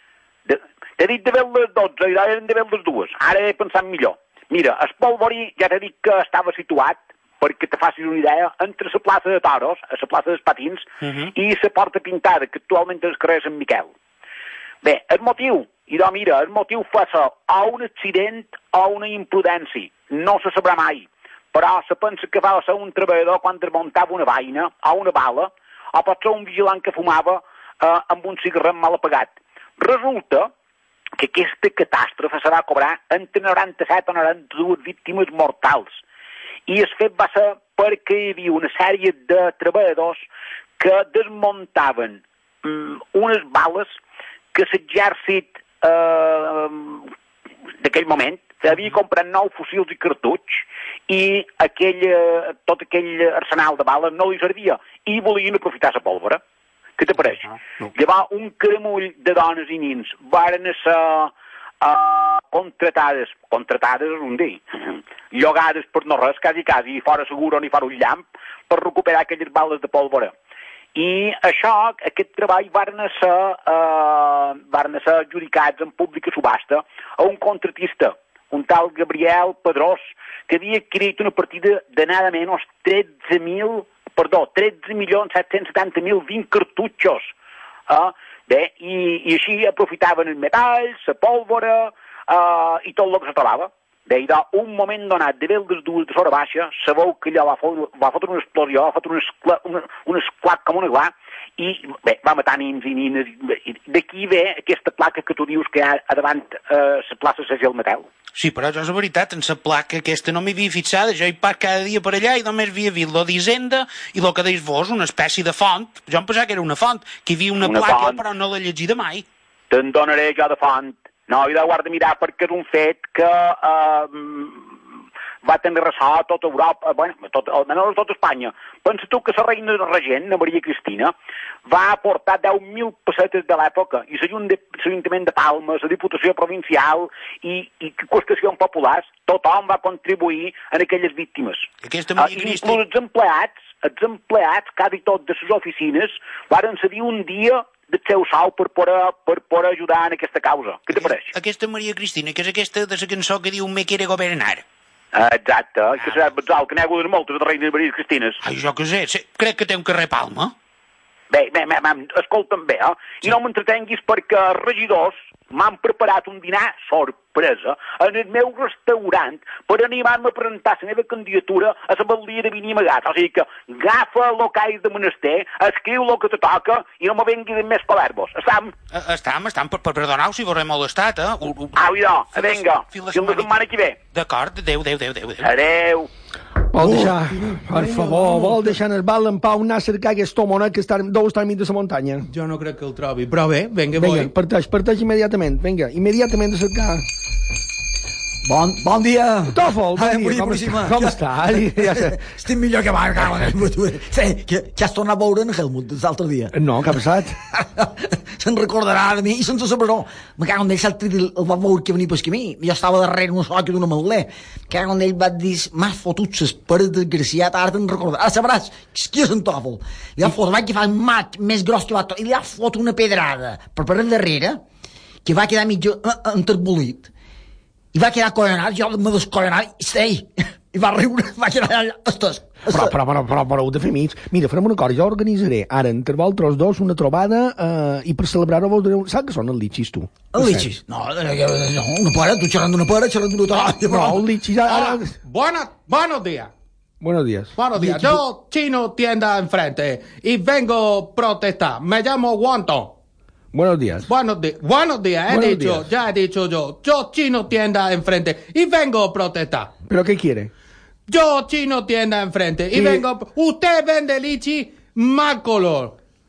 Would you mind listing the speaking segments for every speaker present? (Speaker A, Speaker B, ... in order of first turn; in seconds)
Speaker A: 0.5-13.9, 14.8-30.5, 31.2-36.0, 36.7-40.2, 40.8-43.9, 44.5-47.1, 47.8-56.4, 57.0-70.3, 71.0-87.3, 87.9-108.1, 117.6-118.2, 119.7-124.7, 125.4-131.1, 131.7-151.3, 155.1-158.4, 161.3-178.7, 181.8-184.0, 185.4-186.1
Speaker B: 11.0-11.3, 108.3-119.2, 141.8-142.9, 150.9-154.6, 158.4-160.5, 178.9-183.6, 184.1-185.5
Speaker C: 186.7-192.3, 193.9-197.0, 199.5-202.3, 206.5-207.4, 232.7-240.8, 243.9-245.2, 247.0-248.1, 253.5-254.1, 255.3-255.9, 259.9-260.5, 262.7-263.1
Speaker D: 186.8-188.8, 192.3-194.3, 244.7-246.5, 247.6-252.9, 254.1-259.7, 261.1-266.0
Speaker E: 198.4-206.5, 207.6-224.6, 225.2-227.1, 227.9-233.0, 240.3-244.2, 247.8-248.1